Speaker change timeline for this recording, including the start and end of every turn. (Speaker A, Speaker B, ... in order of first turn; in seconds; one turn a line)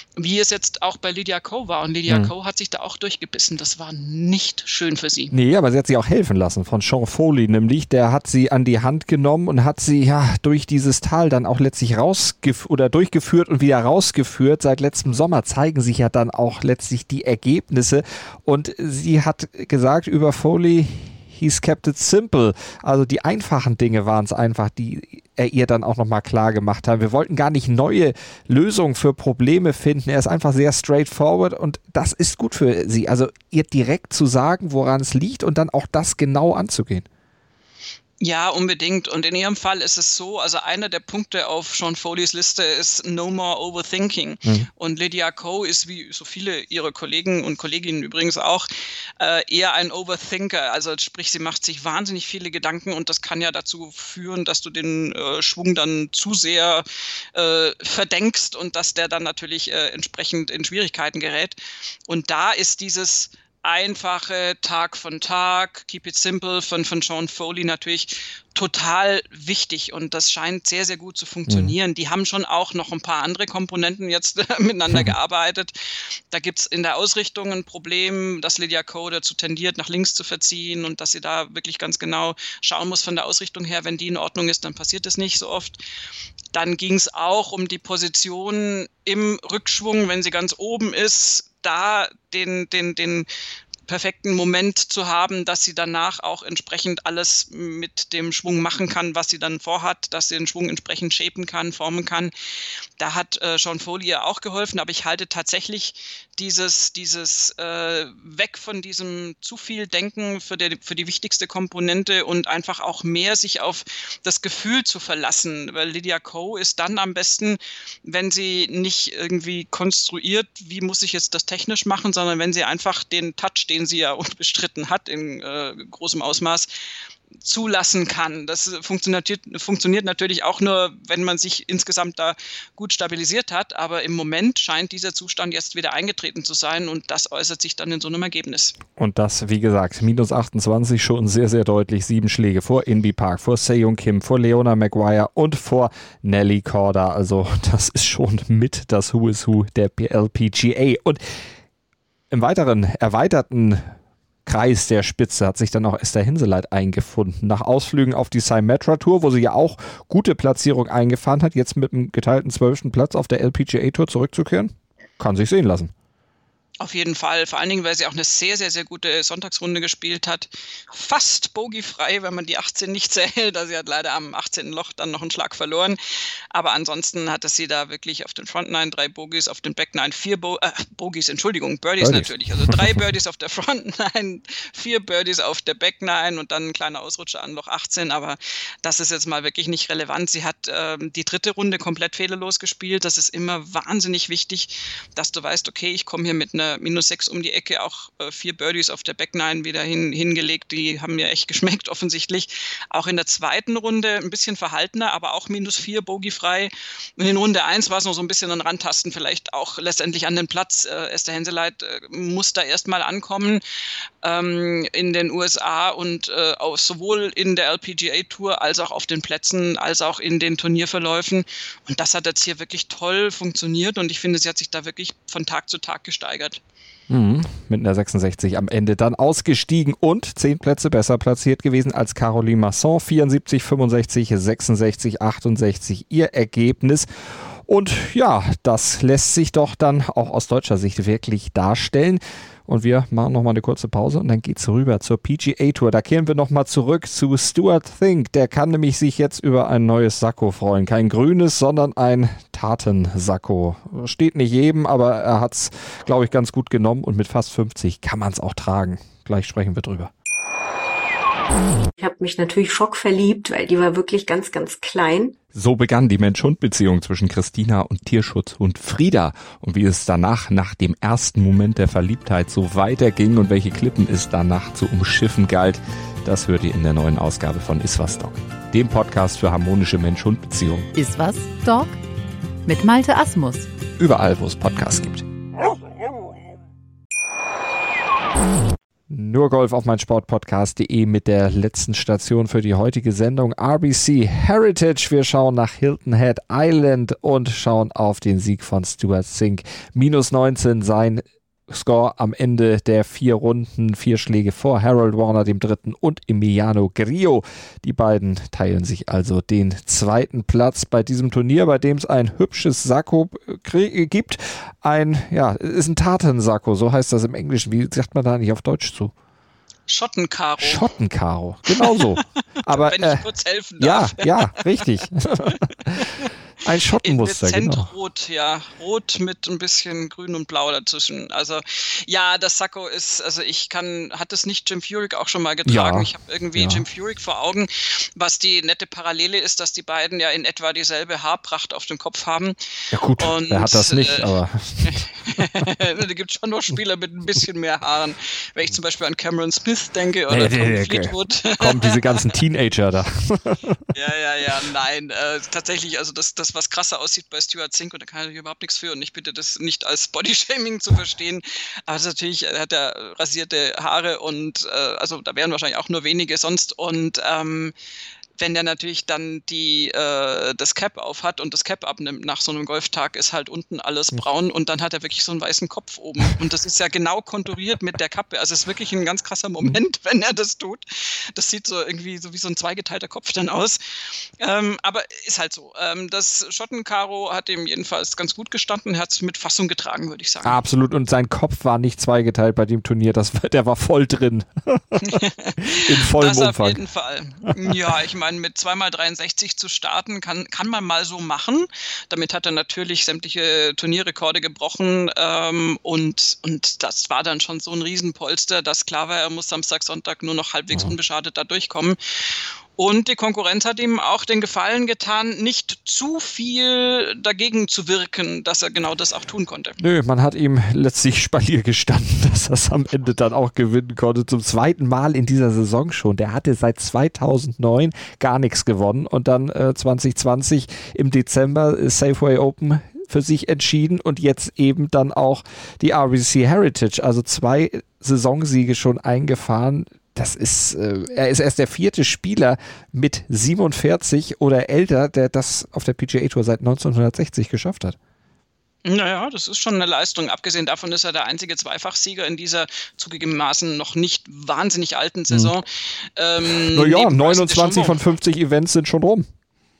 Speaker A: 0.2-5.3
Speaker B: 2.1-2.3
Speaker B: 5.3-37.1
Speaker A: 38.2-48.7
Speaker A: 49.2-75.7
Speaker B: 71.5-71.7
Speaker A: 76.3-85.8
Speaker A: 86.5-93.3
Speaker A: 93.9-102.3
Speaker A: 103.0-126.7
Speaker A: 127.4-138.8
Speaker B: 139.0-151.2
Speaker B: 152.3-153.9
Speaker B: 154.5-165.9
Speaker A: 166.8-176.0
Speaker A: 176.5-213.6
Speaker B: 182.0-183.1
Speaker A: 214.2-226.6
Speaker B: 227.1-260.1
Speaker C: 262.0-265.4
Speaker B: 265.5-280.9
Speaker D: 280.9-281.9
Speaker D: 282.6-283.7
Speaker B: 284.0-285.3
Speaker B: 289.1-319.1
Speaker A: 319.9-320.9
Speaker B: 320.6-323.3
Speaker A: 321.7-322.0
Speaker A: 322.7-326.3
Speaker B: 323.8-326.1
Speaker B: 326.6-327.9
Speaker A: 327.0-342.6
Speaker B: 335.7-336.8
Speaker B: 342.9-345.4
Speaker A: 343.2-352.3
Speaker B: 350.3-353.8
Speaker A: 353.9-367.7
Speaker A: 368.4-383.8
Speaker A: 384.4-390.6
Speaker B: 390.4-396.8
Speaker A: 395.0-412.0
Speaker A: 412.8-419.8
Speaker B: 419.8-448.0
Speaker A: 448.9-458.0
Speaker B: 456.6-459.3